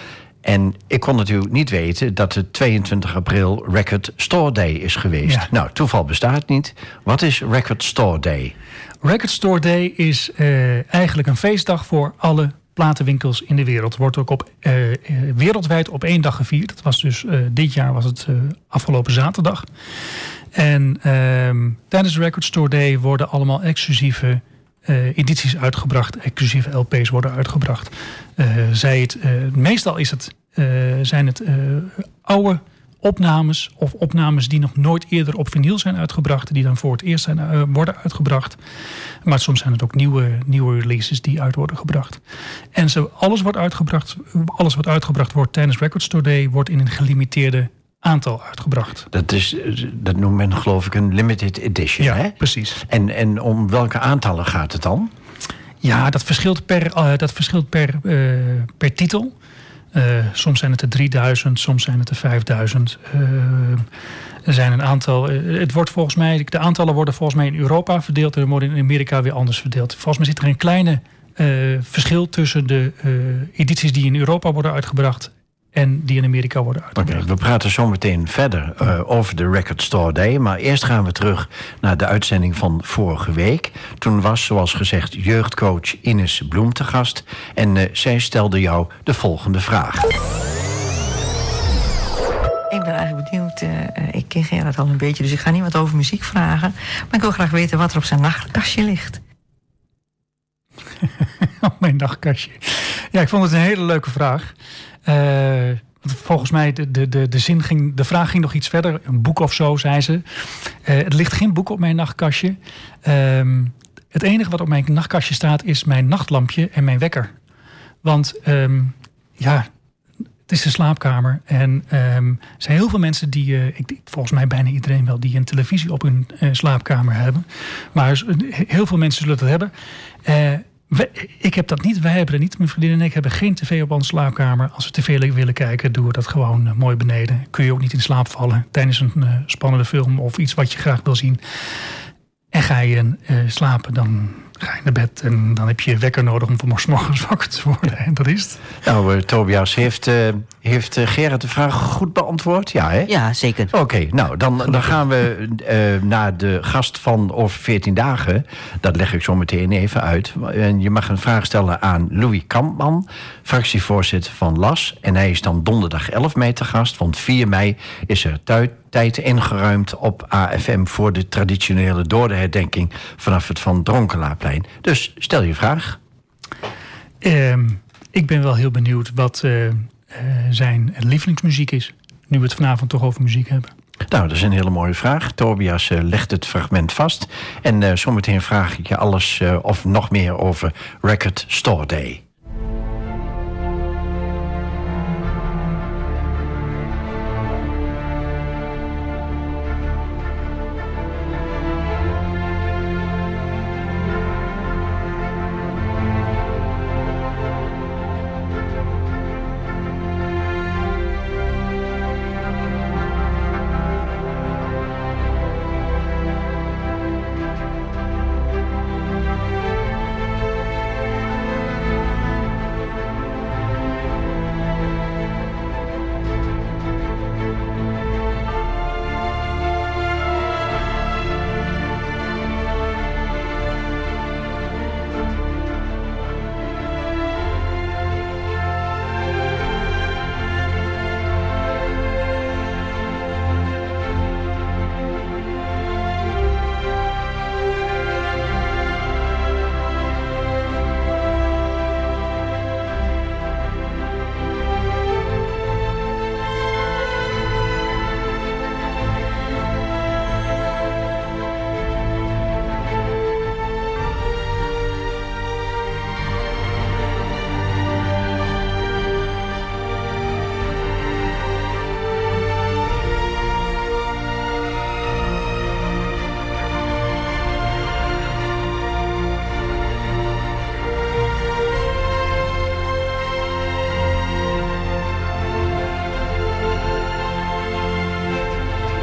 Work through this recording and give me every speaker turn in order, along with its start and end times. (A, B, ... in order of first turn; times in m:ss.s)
0:00.4-0:08.5 A
0:05.2-0:05.5 B
0:09.0-0:19.6 B
0:20.5-0:38.6 B
0:39.2-0:42.2 B
0:42.7-0:49.1 B
0:49.1-0:55.1 A
0:52.0-0:52.8 B
0:55.8-0:59.3 B
0:59.9-1:03.8 B
1:04.4-1:17.2 B
1:17.0-1:30.1 A
1:32.7-1:39.2 C
1:41.0-1:44.5 B
1:45.0-1:57.3 B
1:58.0-1:59.7 B
2:00.5-2:09.7 B
2:10.2-2:21.8 B
2:22.5-2:28.6 B
2:28.8-2:33.1 A
2:33.1-2:33.7 C
2:33.7-2:56.0 A
2:57.2-3:03.7 B
3:04.1-3:12.2 A